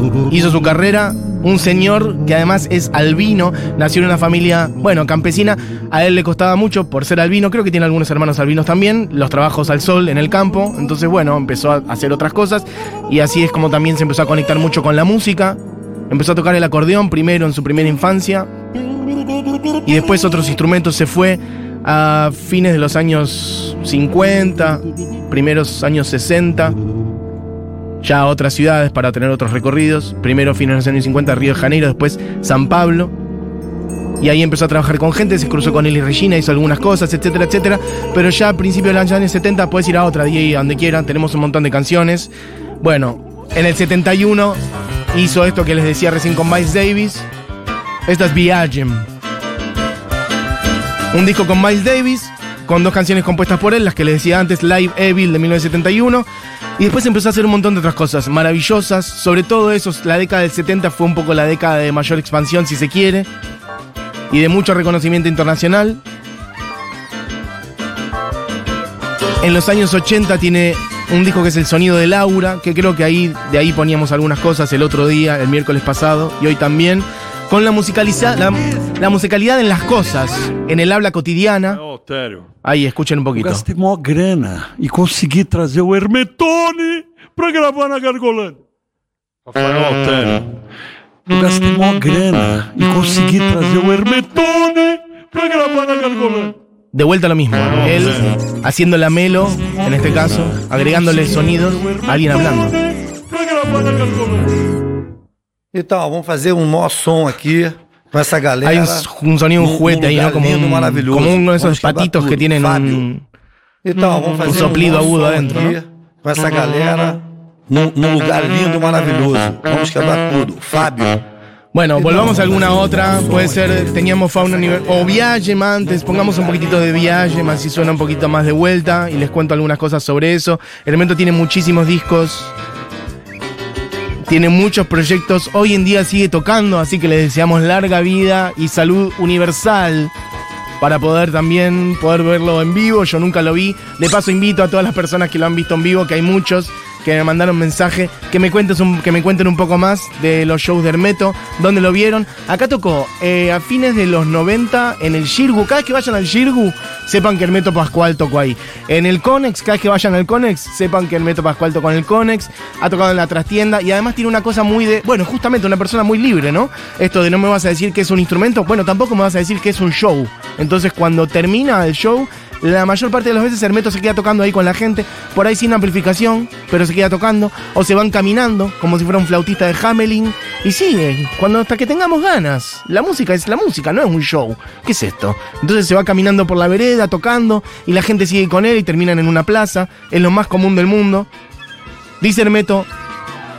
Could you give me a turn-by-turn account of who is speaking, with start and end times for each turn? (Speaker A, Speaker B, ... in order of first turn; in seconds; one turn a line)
Speaker A: 0.3-15.6
Speaker A: 16.1-18.5
Speaker A: 19.9-26.8
Speaker A: 28.0-33.1
Speaker A: 34.2-47.3
Speaker A: 48.1-49.1
Speaker A: 51.1-56.3
Speaker A: 56.8-63.3
Speaker A: 64.3-66.0
Speaker A: 69.4-81.8
Speaker B: 81.8-82.5
Speaker A: 82.6-83.7
Speaker B: 83.3-88.6
Speaker B: 89.5-90.5
Speaker B: 91.3-96.6
Speaker A: 96.9-102.8
Speaker B: 97.9-98.3
Speaker B: 101.0-102.7
Speaker B: 103.3-104.6
Speaker C: 105.7-113.1
Speaker A: 108.6-113.2
Speaker C: 113.8-121.2
Speaker A: 114.5-115.8
Speaker A: 121.7-132.6
Speaker C: 122.0-123.8
Speaker A: 134.3-140.1
Speaker A: 140.8-191.3
Speaker A: 192.2-192.9